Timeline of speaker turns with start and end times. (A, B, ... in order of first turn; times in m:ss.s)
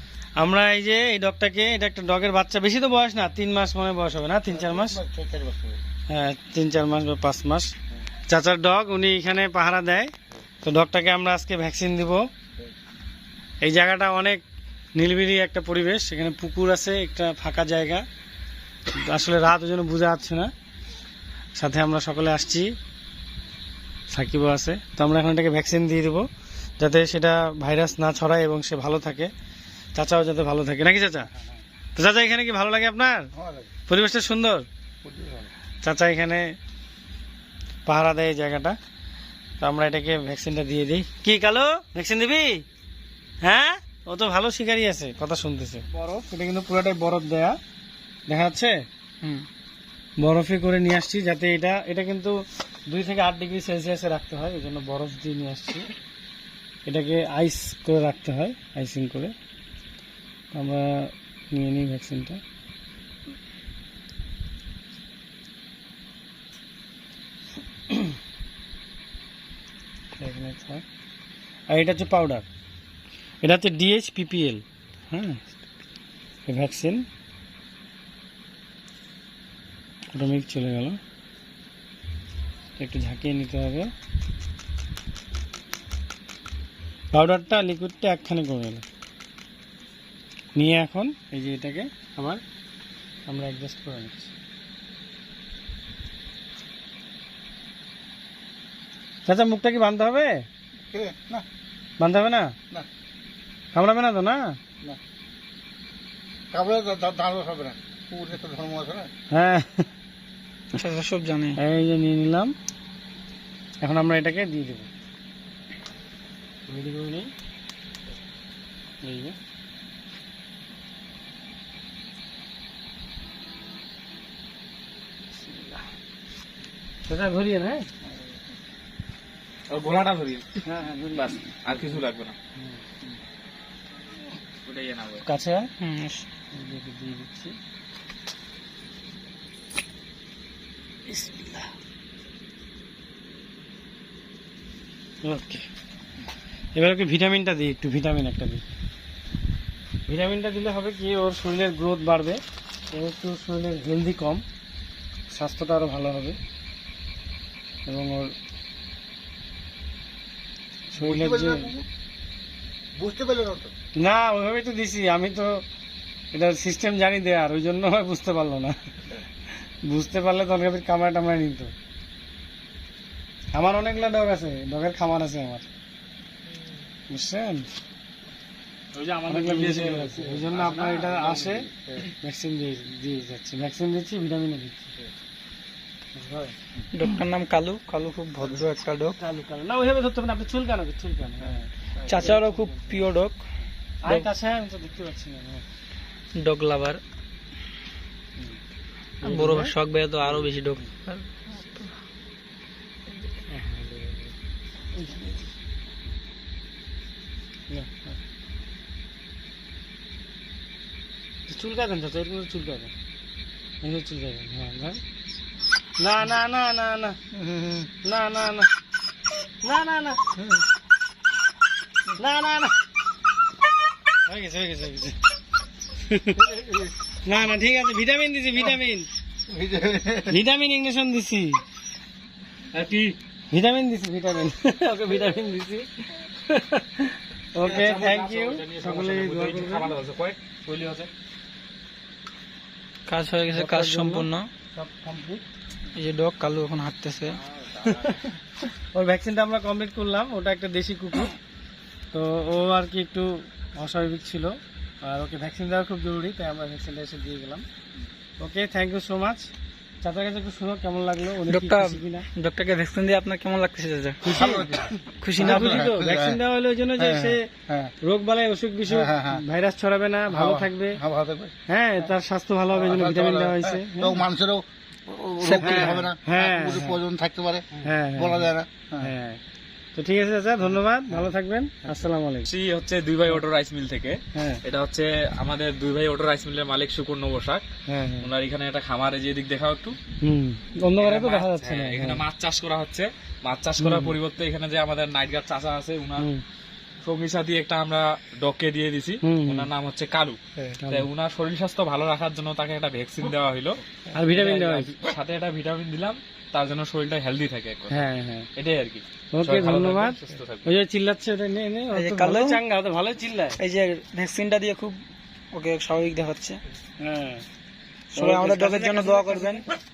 0:00.4-0:05.0 A
0:04.6-0:05.8 B
0:06.1-0:07.7 A
0:08.3-0:10.1 A
0:10.6-0:12.2 A
0:13.6-0:14.4 A
0:15.0-0:18.0 A
0:18.9-0:20.5 A
0:21.6-0:22.7 A
0:24.1-0:26.3 A
0:26.8-0:29.3 A
0:30.0-0:31.3 A
0:32.0-0:33.3 A
0:33.4-0:33.7 B
0:33.9-0:34.7 A
0:35.0-0:35.5 B
0:35.8-0:36.4 A
0:37.9-0:38.8 A
0:39.6-0:42.6 A
0:43.4-0:47.6 A
0:48.3-0:48.7 A
0:50.2-0:52.4 A
0:52.9-0:55.9 A
0:56.9-0:59.3 A
1:00.5-1:02.4 A
1:10.1-1:10.8 A
1:11.7-1:12.4 A
1:13.4-1:15.5 A
1:16.5-1:17.0 A
1:20.1-1:21.0 A
1:22.8-1:23.9 A
1:27.1-1:28.8 A
1:30.6-1:32.4 A
1:33.3-1:34.3 A
1:39.2-1:40.4 A
1:40.9-1:41.4 B
1:42.0-1:42.5 A
1:43.7-1:44.6 A
1:46.5-1:49.1 B
1:49.3-1:49.9 A
1:50.8-1:51.6 C
1:51.6-1:52.5 A
1:53.8-1:54.9 A
1:56.7-1:57.3 A
1:59.0-1:59.4 A
2:07.1-2:07.9 A
2:09.7-2:10.6 D
2:10.6-2:12.0 A
2:11.1-2:12.4 D
2:12.6-2:12.8 A
2:14.6-2:15.2 D
2:15.2-2:15.7 A
2:15.8-2:16.2 C
2:16.5-2:17.6 A
2:21.1-2:21.7 A
2:25.2-2:25.7 A
2:26.8-2:28.6 A
2:30.1-2:32.4 A
2:32.9-2:34.4 A
2:35.3-2:36.4 A
2:37.9-2:38.3 A
2:40.9-2:41.7 A
2:41.0-2:41.8 B
2:43.0-2:43.7 B
2:44.0-2:45.5 A
2:46.3-2:48.8 A
2:49.8-2:51.7 A
2:53.5-2:55.7 A
2:57.1-2:57.7 A
2:58.9-3:01.0 D
2:59.3-3:01.7 A
3:01.0-3:02.0 B
3:02.2-3:04.9 A
3:06.2-3:06.6 A
3:06.9-3:09.2 C
3:09.2-3:12.6 A
3:12.0-3:13.4 C
3:14.0-3:15.6 A
3:16.4-3:17.0 C
3:19.2-3:19.7 A
3:19.2-3:21.9 C
3:23.5-3:24.2 A
3:25.0-3:25.4 A
3:27.7-3:28.2 A
3:31.5-3:32.9 A
3:33.8-3:35.0 A
3:36.0-3:37.2 A
3:37.3-3:37.9 B
3:38.0-3:38.7 A
3:39.6-3:40.3 A
3:42.2-3:42.8 A
3:44.3-3:45.2 A
3:46.1-3:46.4 A
3:47.2-3:49.1 A
3:49.5-3:50.3 B
3:50.2-3:51.6 A
3:52.7-3:53.2 D
3:53.5-3:55.4 A
3:55.0-3:55.9 D
3:57.5-3:59.9 A
3:57.6-4:01.1 D
4:03.1-4:04.5 C
4:03.5-4:05.4 A
4:06.0-4:07.4 C
4:07.3-4:08.2 D
4:08.9-4:11.4 A
4:12.1-4:17.6 A
4:18.4-4:19.5 A
4:20.0-4:22.3 A
4:21.5-4:24.2 C
4:24.2-4:24.8 A
4:24.4-4:26.4 B
4:25.2-4:25.6 C
4:25.4-4:27.4 A
4:27.0-4:27.9 B
4:28.0-4:31.0 A
4:28.9-4:29.4 B
4:30.3-4:31.5 B
4:31.7-4:34.2 A
4:32.7-4:39.1 B
4:35.4-4:36.0 C
4:35.5-4:37.0 A
4:37.8-4:39.4 A
4:40.0-4:42.5 A
4:42.5-4:47.6 D
4:44.3-4:44.6 A
4:47.9-4:48.3 A
4:48.2-4:50.0 D
4:50.2-4:52.2 A
4:51.0-4:56.3 D
4:53.8-4:54.2 A
4:56.2-4:56.4 A
4:57.0-5:08.0 D
4:59.2-4:59.7 A
5:00.8-5:01.1 A
5:04.1-5:04.9 A
5:07.9-5:08.5 A
5:08.6-5:10.7 D
5:09.3-5:13.6 A
5:11.9-5:12.6 C
5:13.6-5:15.0 C
5:15.5-5:16.6 C
5:17.0-5:17.4 A
5:18.1-5:19.7 C
5:18.2-5:19.7 A